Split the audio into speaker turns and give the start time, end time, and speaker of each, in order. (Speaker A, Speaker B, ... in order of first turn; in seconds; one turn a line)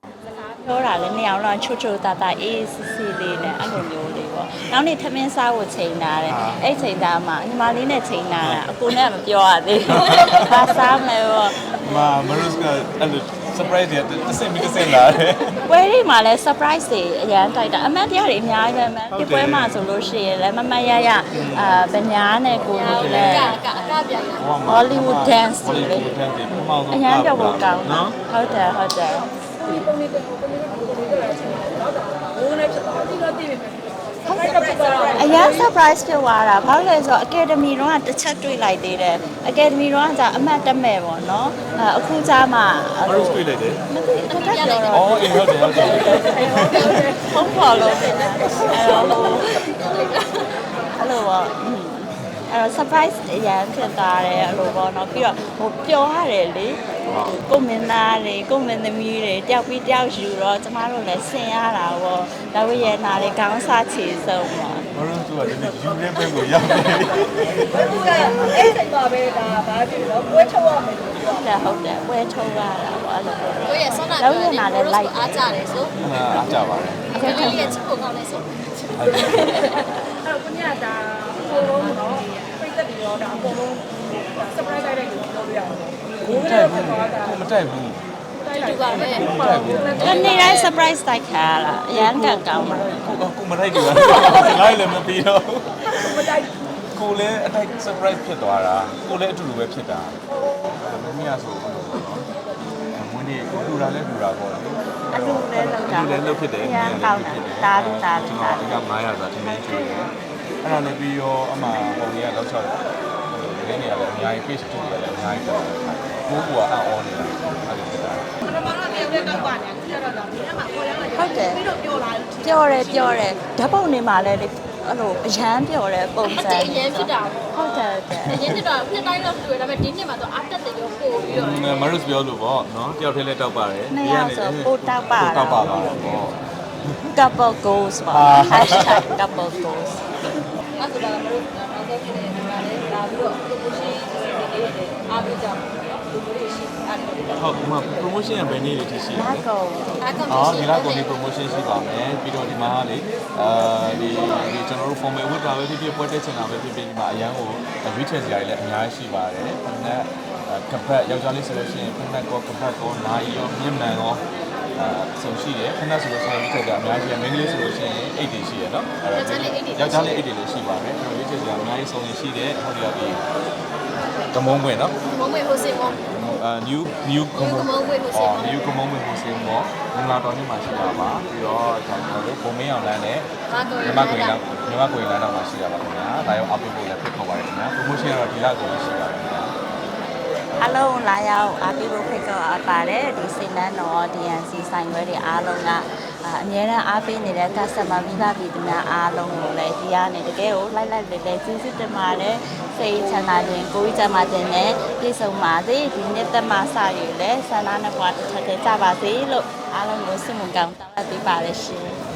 Speaker A: 0.4-11.6
Speaker B: 6.2-6.6
Speaker B: 8.4-8.7
Speaker B: 9.9-10.9
Speaker B: 11.6-15.6
Speaker A: 15.6-24.0
Speaker B: 19.1-19.8
Speaker B: 21.3-21.9
Speaker C: 22.6-24.6
Speaker B: 22.8-23.6
Speaker B: 24.4-28.8
Speaker A: 24.6-26.1
Speaker A: 26.9-29.2
Speaker D: 29.6-35.7
Speaker A: 34.2-49.5
Speaker B: 43.0-43.8
Speaker C: 44.3-46.2
Speaker B: 44.9-47.2
Speaker D: 45.8-49.1
Speaker C: 47.9-48.2
Speaker C: 48.8-50.4
Speaker A: 51.0-64.8
Speaker B: 57.1-57.4
Speaker B: 64.9-67.8
Speaker D: 67.7-71.4
Speaker A: 68.0-68.6
Speaker A: 71.2-75.2
Speaker C: 73.6-75.9
Speaker B: 76.0-77.8
Speaker C: 77.1-79.8
Speaker A: 77.1-77.8
Speaker B: 79.0-79.7
Speaker D: 80.2-87.4
Speaker B: 86.2-88.0
Speaker D: 88.3-90.6
Speaker C: 88.5-89.3
Speaker B: 89.1-90.3
Speaker C: 90.0-90.7
Speaker A: 90.0-93.2
Speaker B: 91.9-96.2
Speaker C: 93.8-94.5
Speaker D: 95.8-96.5
Speaker B: 96.9-100.2
Speaker B: 100.7-102.2
Speaker B: 102.9-118.3
Speaker A: 105.1-108.7
Speaker A: 109.4-110.1
Speaker D: 118.6-120.9
Speaker A: 121.1-121.7
Speaker D: 121.7-122.0
Speaker A: 122.3-128.5
Speaker C: 126.2-131.8
Speaker B: 128.2-128.6
Speaker B: 131.3-137.0
Speaker A: 133.9-136.2
Speaker A: 137.1-140.1
Speaker B: 138.1-139.1
Speaker D: 140.8-147.5
Speaker B: 147.3-149.4
Speaker A: 149.1-149.9
Speaker C: 150.0-151.1
Speaker B: 150.3-164.2
Speaker B: 164.7-173.2
Speaker C: 169.1-170.3
Speaker B: 174.3-174.9
Speaker C: 175.1-176.0
Speaker B: 176.1-189.5
Speaker C: 177.3-178.8
Speaker C: 183.5-184.4
Speaker A: 190.6-212.0